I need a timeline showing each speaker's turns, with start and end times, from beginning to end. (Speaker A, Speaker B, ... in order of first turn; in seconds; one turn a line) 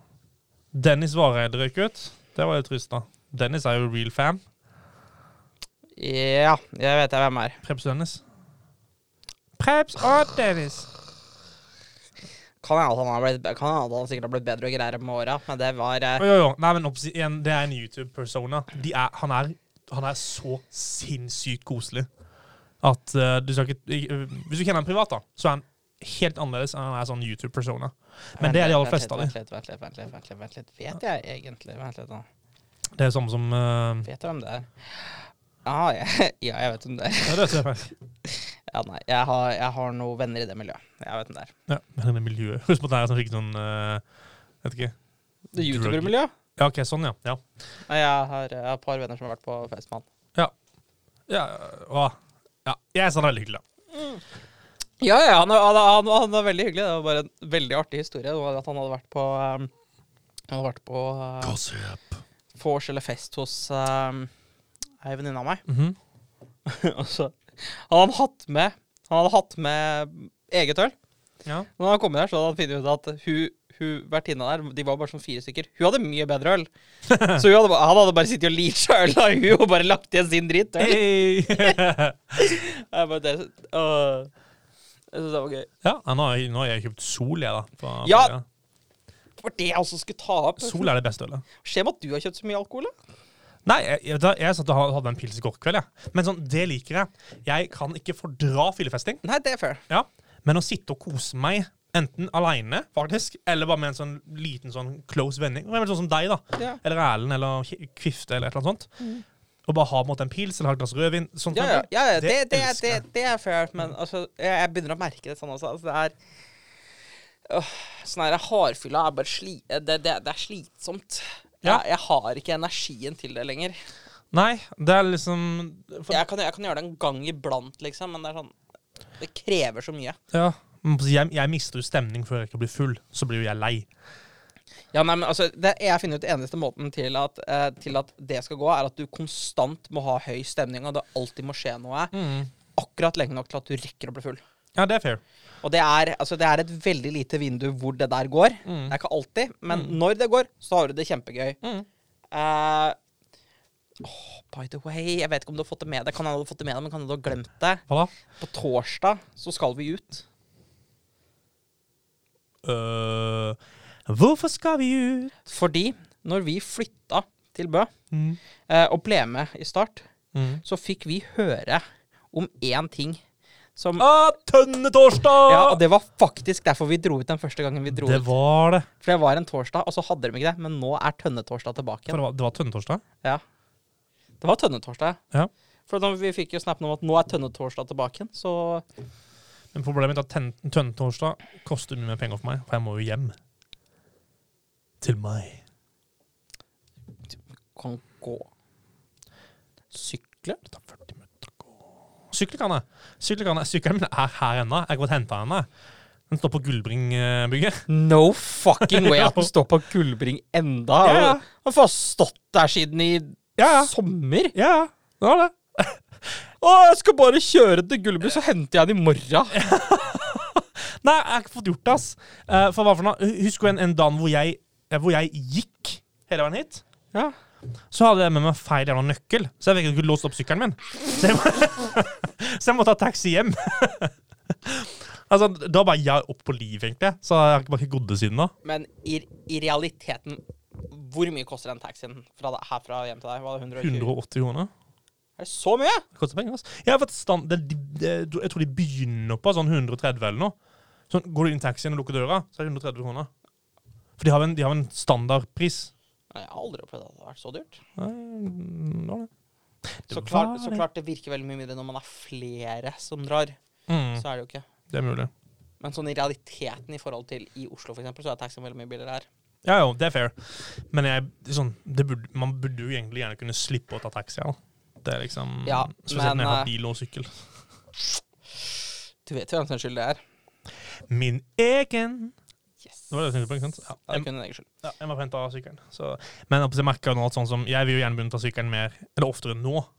Speaker A: 0.7-4.4
Speaker B: 6.0-7.6
Speaker A: 7.6-8.2
Speaker A: 9.6-10.9
Speaker B: 12.6-16.3
Speaker A: 16.2-22.1
Speaker A: 22.8-29.3
Speaker B: 28.4-32.2
Speaker A: 33.0-34.1
Speaker B: 34.0-37.6
Speaker A: 37.2-37.9
Speaker B: 38.2-41.5
Speaker A: 41.7-44.0
Speaker A: 44.6-44.9
Speaker B: 45.5-46.3
Speaker A: 45.6-47.4
Speaker B: 47.9-50.0
Speaker A: 51.3-53.6
Speaker B: 53.9-54.2
Speaker B: 55.0-59.7
Speaker B: 60.5-61.6
Speaker A: 61.4-62.2
Speaker B: 62.5-64.3
Speaker B: 65.0-65.6
Speaker A: 65.7-66.0
Speaker B: 66.7-70.9
Speaker B: 71.8-76.7
Speaker A: 77.1-77.4
Speaker B: 77.2-81.8
Speaker A: 80.8-82.5
Speaker B: 82.4-84.3
Speaker B: 85.1-85.7
Speaker A: 85.8-88.4
Speaker B: 88.0-88.3
Speaker B: 89.4-90.9
Speaker A: 90.6-91.4
Speaker B: 91.6-92.9
Speaker A: 93.6-99.2
Speaker B: 99.2-99.8
Speaker A: 99.9-109.0
Speaker A: 109.7-113.0
Speaker B: 111.5-116.1
Speaker B: 117.5-123.7
Speaker A: 124.3-126.2
Speaker B: 126.1-128.5
Speaker B: 129.2-130.2
Speaker A: 130.3-133.9
Speaker B: 134.9-142.1
Speaker A: 142.1-142.5
Speaker B: 142.7-144.4
Speaker A: 144.8-145.2
Speaker B: 145.6-151.6
Speaker A: 148.6-148.9
Speaker A: 149.7-149.9
Speaker A: 151.6-151.9
Speaker B: 152.3-153.0
Speaker B: 154.0-157.8
Speaker B: 158.4-160.2
Speaker A: 162.6-165.3
Speaker B: 165.4-167.9
Speaker A: 168.1-168.4
Speaker B: 168.7-170.1
Speaker A: 170.3-170.6
Speaker B: 170.6-173.2
Speaker B: 173.8-174.1
Speaker A: 174.0-175.8
Speaker B: 175.4-178.3
Speaker A: 177.9-178.9
Speaker B: 179.0-182.2
Speaker A: 182.1-183.0
Speaker B: 184.4-185.2
Speaker B: 185.9-188.8
Speaker A: 189.7-193.3
Speaker A: 195.0-195.6
Speaker B: 197.7-198.5
Speaker B: 199.9-200.6
Speaker A: 200.7-201.8
Speaker A: 202.3-205.7
Speaker A: 206.3-207.8
Speaker B: 207.9-214.5
Speaker A: 208.8-209.5
Speaker A: 211.0-211.4
Speaker A: 213.6-213.9
Speaker A: 214.5-216.0
Speaker B: 216.6-219.6
Speaker A: 219.5-226.8
Speaker A: 227.9-238.5
Speaker B: 238.6-244.1
Speaker A: 243.8-244.7
Speaker B: 245.4-246.0
Speaker A: 246.1-250.5
Speaker A: 251.1-253.3
Speaker A: 254.2-255.9
Speaker B: 256.3-257.8
Speaker A: 258.0-259.3
Speaker A: 260.0-260.8
Speaker B: 260.1-263.6
Speaker A: 263.9-264.2
Speaker B: 264.1-264.6
Speaker A: 264.9-265.3
Speaker B: 265.8-269.2
Speaker A: 269.6-277.3
Speaker B: 275.6-276.7
Speaker B: 279.2-280.2
Speaker A: 281.1-282.3
Speaker A: 283.1-284.3
Speaker B: 284.1-284.6
Speaker A: 284.8-289.9